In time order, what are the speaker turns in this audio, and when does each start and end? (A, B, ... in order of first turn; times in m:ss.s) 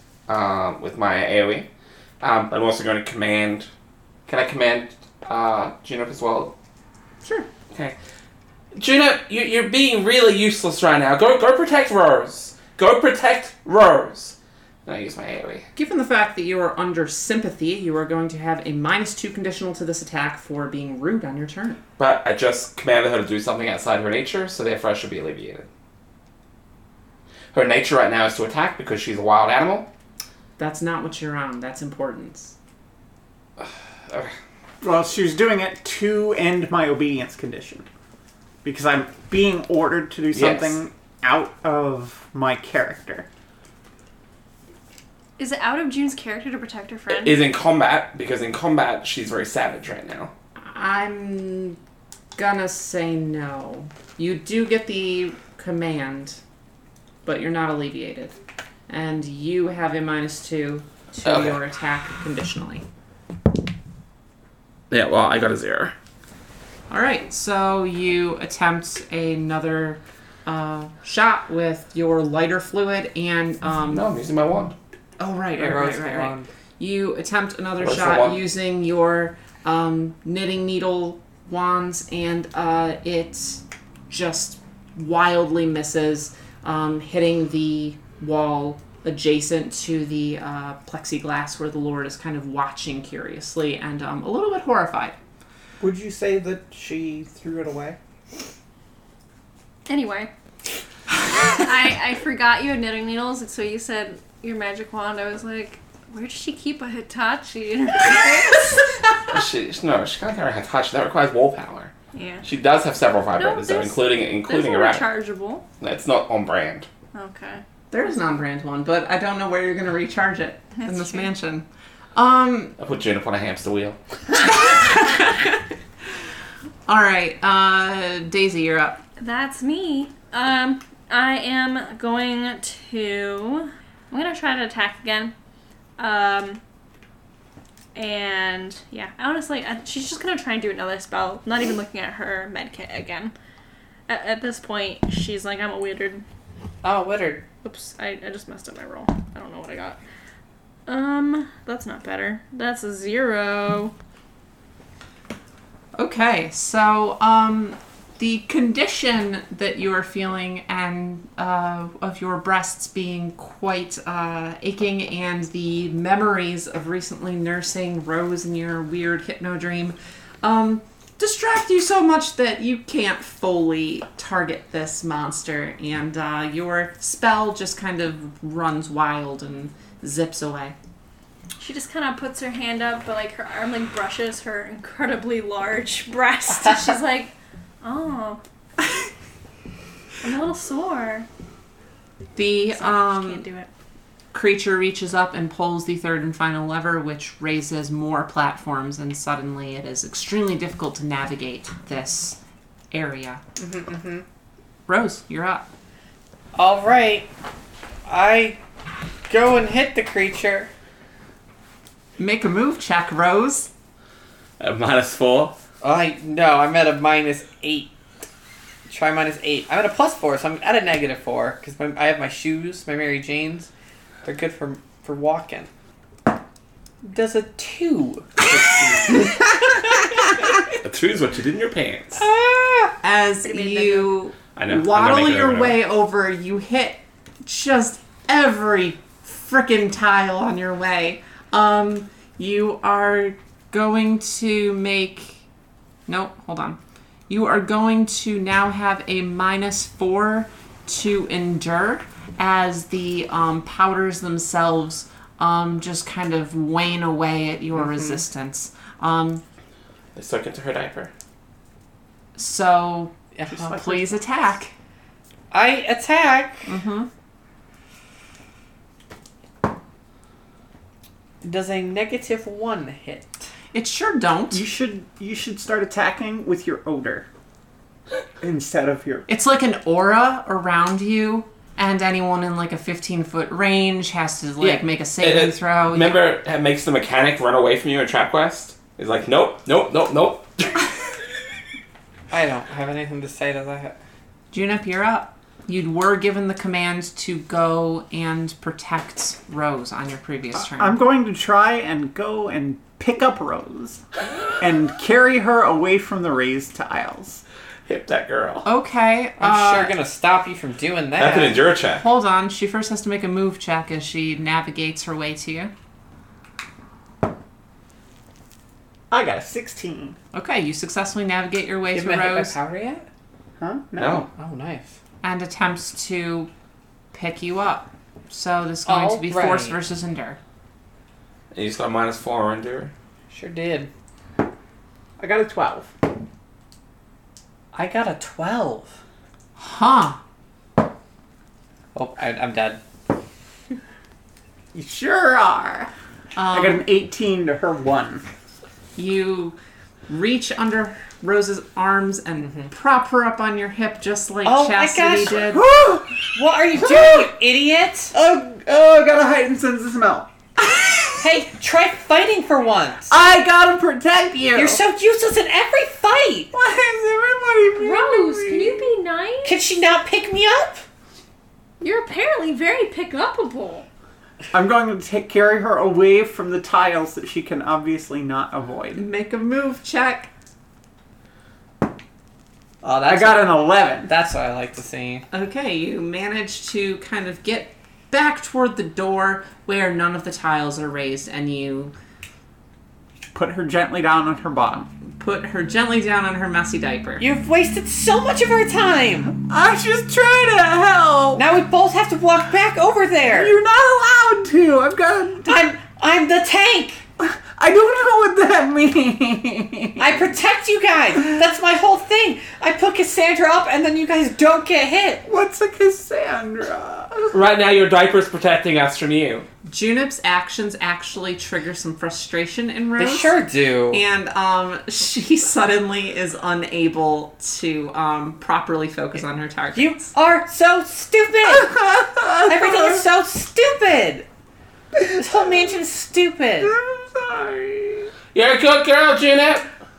0:00.3-0:01.7 A
0:02.2-0:03.7 A
0:04.3-0:06.5 A
0:08.8-0:15.7 A
0:15.8-0:21.8 B
0:22.0-0:25.7 A
0:27.5-0:29.9 A
0:30.6-0:32.5 B
0:33.6-0:34.3 A
0:34.8-0:37.9 C
0:38.6-0:43.3 C
0:40.3-0:40.8 A
0:45.4-0:47.4 D
0:47.1-0:50.3 A
0:50.6-0:51.8 B
0:52.3-0:56.4 B
0:57.2-0:58.4 B
0:58.9-1:02.8 B
1:01.2-1:01.6 A
1:04.9-1:05.9 A
1:06.9-1:14.1 B
1:13.9-1:14.7 A
1:15.2-1:35.1 B
1:15.6-1:16.5 E
1:17.8-1:18.4 A
1:35.8-1:38.0 C
1:39.9-1:40.3 D
1:41.4-1:49.0 D
1:49.3-1:51.9 A
1:52.1-1:52.5 D
1:52.4-1:55.1 A
1:53.4-1:55.6 D
1:55.8-1:56.9 A
1:57.1-1:57.6 D
1:57.9-2:02.8 B
2:00.8-2:01.3 D
2:02.8-2:04.0 A
2:04.4-2:05.6 B
2:06.9-2:09.0 B
2:09.2-2:15.3 D
2:16.0-2:16.6 D
2:17.9-2:23.3 D
2:24.1-2:26.2 D
2:26.8-2:27.5 E
2:27.6-2:30.0 D
2:30.9-2:33.9 D
2:36.0-3:00.7 B
3:01.6-3:08.4 D
3:10.2-3:11.3 D
3:12.4-3:13.4 B
3:12.7-3:13.7 D
3:14.3-3:22.4 B
3:22.9-3:23.4 B
3:23.6-3:24.2 E
3:24.9-3:25.7 B
3:26.5-3:27.3 E
3:28.0-3:28.6 E
3:29.3-3:30.7 E
3:32.2-3:33.7 B
3:34.6-3:35.6 A
3:35.8-3:37.9 E
3:38.9-3:43.7 E
3:44.2-3:45.7 E
3:47.0-3:50.0 E
3:50.8-3:52.2 A
3:52.2-3:53.0 E
3:53.0-4:05.4 B
3:53.4-3:54.2 D
3:54.6-3:55.8 A
4:06.1-4:19.4 B
4:17.8-4:18.2 E
4:20.1-4:21.1 A
4:22.4-4:24.7 B
4:23.3-4:23.8 E
4:23.5-4:24.1 C
4:25.5-4:26.6 E
4:26.6-4:27.1 B
4:31.4-4:33.5 E
4:33.7-4:34.6 B
4:34.5-4:37.3 C
4:38.4-4:39.3 C
4:39.3-4:46.2 B
4:45.2-4:50.9 A
4:52.3-4:54.0 E
4:54.5-5:01.0 B
5:00.5-5:04.0 C
5:04.6-5:07.4 C
5:07.9-5:08.6 A
5:08.6-5:09.9 B
5:09.4-5:11.6 E
5:11.2-5:12.0 A
5:12.0-5:15.7 B
5:19.1-5:20.2 C
5:20.3-5:22.5 B
5:21.9-5:23.0 E
5:23.6-5:24.3 C
5:24.0-5:24.3 A
5:24.4-5:25.0 E
5:25.2-5:26.5 B
5:27.1-5:30.4 B
5:28.8-5:29.8 E
5:31.5-5:32.9 A
5:33.3-5:33.9 E
5:35.2-5:35.9 C
5:37.7-5:38.9 E
5:39.6-5:40.2 B
5:41.9-5:42.8 E
5:44.7-5:45.9 C
5:46.4-5:46.9 B
5:46.5-5:48.2 C
5:49.0-5:49.6 B
5:50.1-5:55.7 B
5:52.4-5:52.7 E
5:54.4-5:55.5 E
5:55.4-5:57.3 C
5:56.3-5:58.1 E
5:58.1-6:00.3 C
6:01.2-6:03.1 E
6:03.1-6:04.8 C
6:04.5-6:06.5 E
6:06.5-6:08.9 C
6:07.8-6:09.6 D
6:09.4-6:10.8 E
6:11.8-6:13.8 D
6:14.5-6:19.0 C
6:18.9-6:20.3 B
6:22.8-6:25.2 E
6:23.0-6:24.1 C
6:25.3-6:31.9 B
6:33.3-6:34.9 C
6:35.2-6:37.2 B
6:37.2-6:39.4 E
6:39.3-6:41.4 C
6:41.3-6:43.6 E
6:43.3-6:45.7 C
6:45.4-6:47.0 E
6:47.2-6:50.3 C
6:50.0-6:55.2 E
6:55.2-6:57.4 C
6:57.3-6:59.5 A
6:59.6-7:03.4 B
7:03.0-7:04.0 E
7:03.9-7:10.1 B
7:09.7-7:11.8 E
7:11.5-7:13.0 C
7:12.4-7:14.3 E
7:15.0-7:15.5 C
7:15.1-7:16.7 E
7:16.6-7:18.1 C
7:18.3-7:19.7 A